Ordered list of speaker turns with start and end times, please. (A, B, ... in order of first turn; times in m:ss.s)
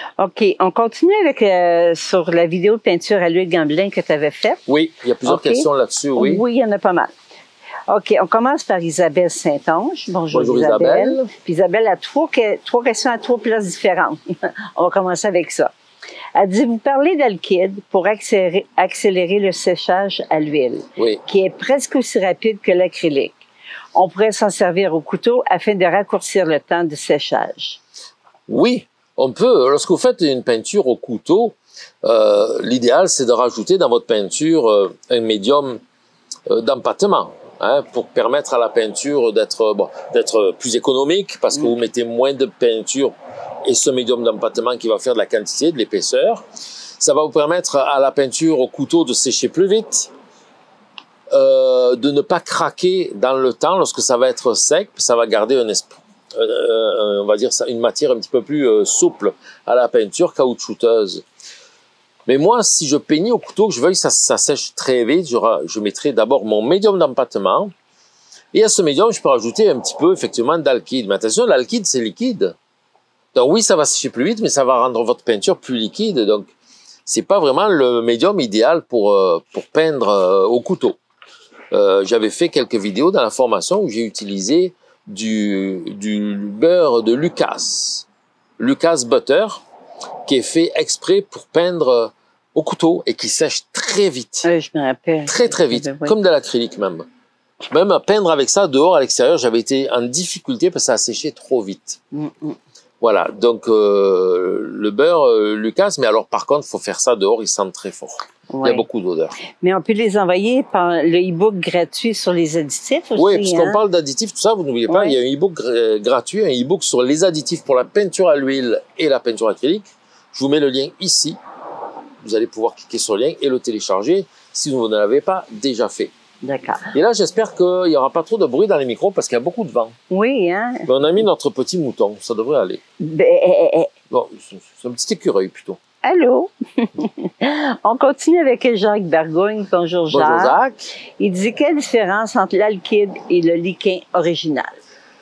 0:00.2-0:04.6 A
0:04.7-0:06.4 B
0:05.3-0:07.1 A
0:07.9-0:15.7 A
0:10.3-0:11.3 B
0:16.4-0:23.4 A
0:21.0-0:21.2 B
0:24.0-0:27.8 A
0:28.5-0:35.8 B
0:36.5-0:46.4 B
0:47.0-0:50.1 B
0:51.3-1:01.2 B
1:02.3-1:07.7 B
1:08.5-1:12.6 B
1:13.3-1:16.5 B
1:17.1-1:21.0 B
1:21.7-1:28.0 B
1:28.6-1:29.6 B
1:30.3-1:34.5 B
1:34.4-1:36.1 A
1:35.3-1:37.1 B
1:37.7-1:42.0 B
1:42.1-1:42.6 A
1:43.0-1:49.4 B
1:48.5-1:48.8 A
1:49.5-1:53.8 A
1:53.2-2:01.4 B
1:54.9-1:55.2 A
2:02.2-2:06.1 B
2:06.4-2:06.9 A
2:06.9-2:09.9 B
2:10.1-2:10.9 A
2:10.9-2:12.8 B
2:13.0-2:13.9 A
2:14.1-2:15.8 B
2:16.0-2:20.6 A
2:20.1-2:20.9 B
2:21.2-2:24.8 A